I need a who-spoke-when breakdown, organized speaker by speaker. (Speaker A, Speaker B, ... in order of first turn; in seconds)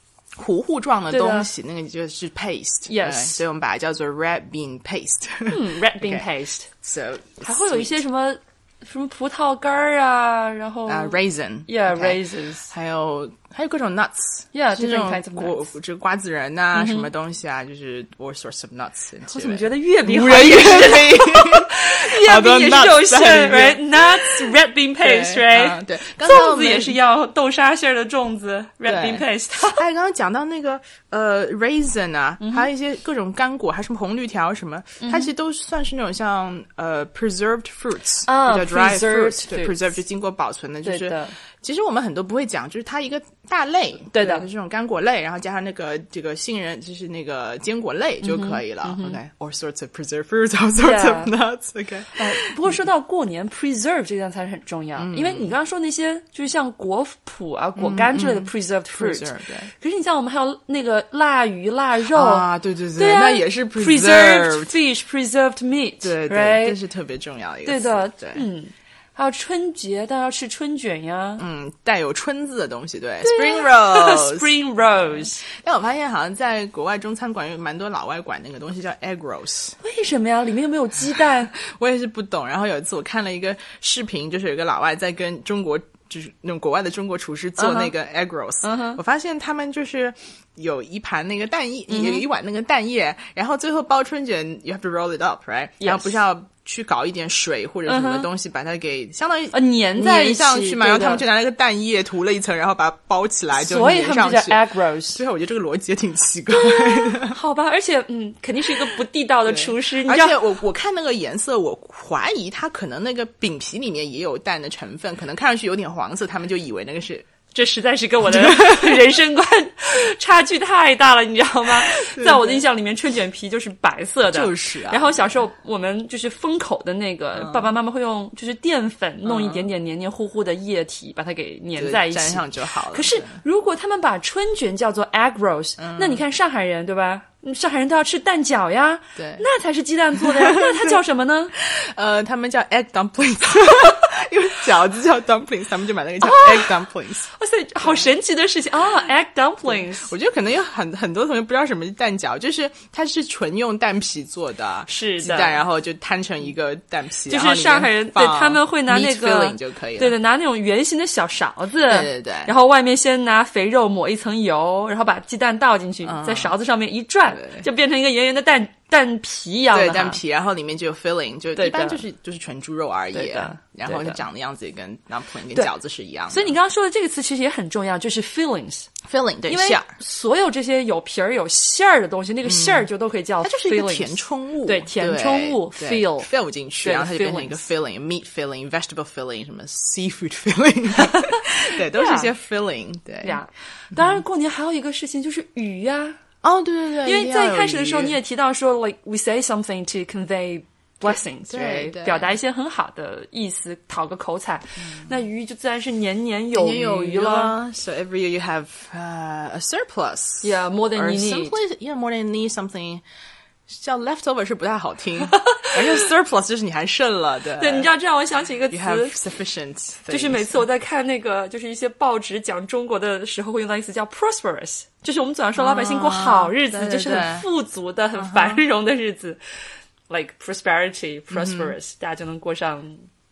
Speaker A: 0.4-6.3, 6.8-8.0, 10.9-27.0, 28.9-52.8, 55.0-55.6, 57.8-59.7, 62.1-64.7, 66.0-68.5, 71.4-79.8, 81.2-107.4, 109.5-117.3, 118.2-119.1, 121.9-122.7, 124.2-125.4, 127.3-127.7, 129.2-129.7, 131.8-133.4, 135.8-136.2, 139.2-139.4, 140.2-141.0, 141.6-147.3, 147.8-148.1, 149.7-160.2, 161.9-162.5, 166.0-166.6, 167.3-167.7, 169.7-176.6, 179.0-179.9, 182.4-182.9, 183.4-193.4, 193.9-194.2, 196.4-198.2, 201.5-202.4, 204.8-205.1, 206.5-213.0, 213.7-217.9, 218.7-220.7, 225.6-227.5, 228.2-228.6, 231.3-231.7
Speaker B: 1.1-1.5, 2.9-3.4, 5.5-6.7, 7.4-12.7, 14.5-15.7, 16.7-17.1, 19.3-29.8, 32.4-32.7, 35.0-35.3, 38.3-39.9, 40.8-41.4, 44.1-44.5, 48.2-49.2, 50.8-51.3, 52.2-66.8, 67.7-71.4, 73.2-75.4, 79.8-81.5, 87.6-87.9, 88.6-89.0, 91.9-92.3, 95.8-96.2, 97.9-98.3, 99.5-101.2, 103.5-105.2, 106.5-110.4, 117.5-141.5, 146.2-150.1, 154.9-155.6, 157.3-170.2, 171.6-172.0, 173.1-174.2, 176.3-178.9, 179.5-186.3, 186.8-187.6, 191.0-192.3, 193.2-196.2, 197.0-207.6, 210.4-211.6, 215.4-215.7, 217.6-219.2, 220.1-229.4, 230.1-233.0